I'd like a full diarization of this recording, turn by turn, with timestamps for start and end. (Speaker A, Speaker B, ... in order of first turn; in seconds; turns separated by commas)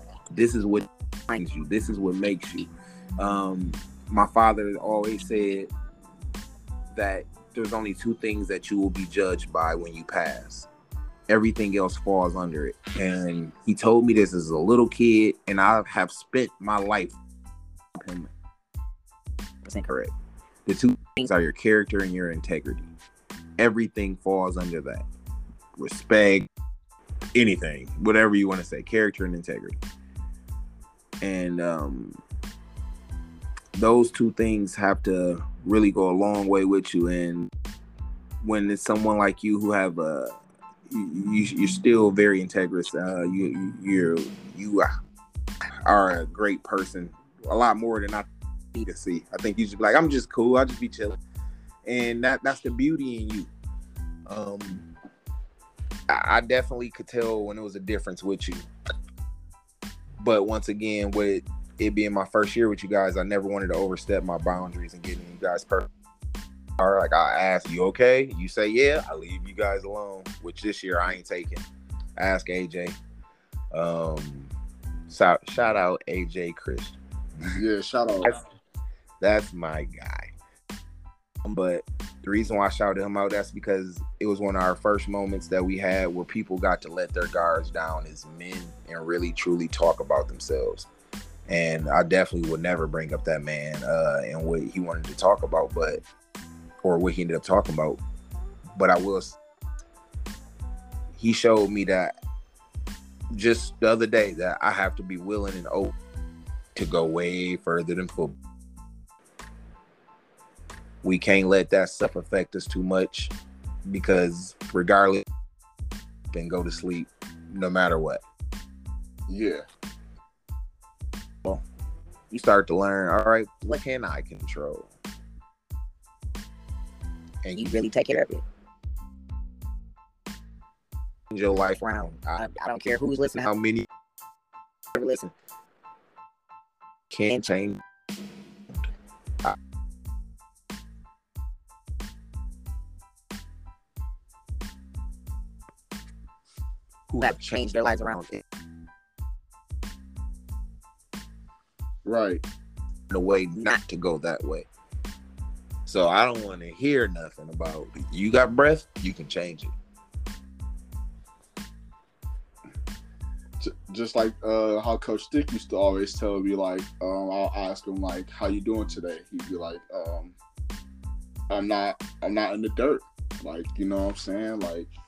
Speaker A: 0.3-5.7, Speaker A: 6.9-10.7, Speaker A: 11.3-17.2, Speaker A: 17.9-18.3, Speaker A: 19.6-20.1, Speaker A: 20.6-22.9, Speaker A: 23.6-25.1, Speaker A: 25.8-26.5, Speaker A: 27.3-29.8, Speaker A: 31.2-32.2, Speaker A: 33.8-37.5, Speaker A: 38.4-40.4, Speaker A: 40.9-44.9, Speaker A: 45.8-51.2, Speaker A: 51.9-53.5, Speaker A: 54.3-54.9, Speaker A: 56.1-58.6, Speaker A: 60.2-65.9, Speaker A: 66.8-71.7, Speaker A: 72.2-73.0, Speaker A: 73.7-74.5, Speaker A: 75.1-77.0, Speaker B: 77.5-78.3, Speaker A: 79.2-80.3, Speaker A: 81.4-90.9, Speaker A: 91.5-96.0, Speaker A: 96.8-98.0, Speaker A: 98.8-99.4, Speaker A: 101.2-102.1, Speaker A: 103.3-105.9, Speaker A: 106.7-108.4, Speaker A: 111.0-113.3, Speaker A: 113.9-115.2, Speaker A: 116.3-118.2, Speaker B: 119.3-119.6, Speaker A: 122.3-124.9, Speaker A: 127.4-127.8, Speaker C: 127.5-128.4, Speaker A: 131.3-133.9, Speaker C: 131.8-133.5, Speaker C: 134.9-135.3, Speaker A: 137.1-137.8, Speaker A: 147.1-148.4, Speaker C: 147.2-148.2, Speaker B: 152.0-152.4, Speaker A: 153.1-154.7, Speaker A: 155.8-159.7, Speaker B: 163.6-170.3, Speaker B: 171.5-174.9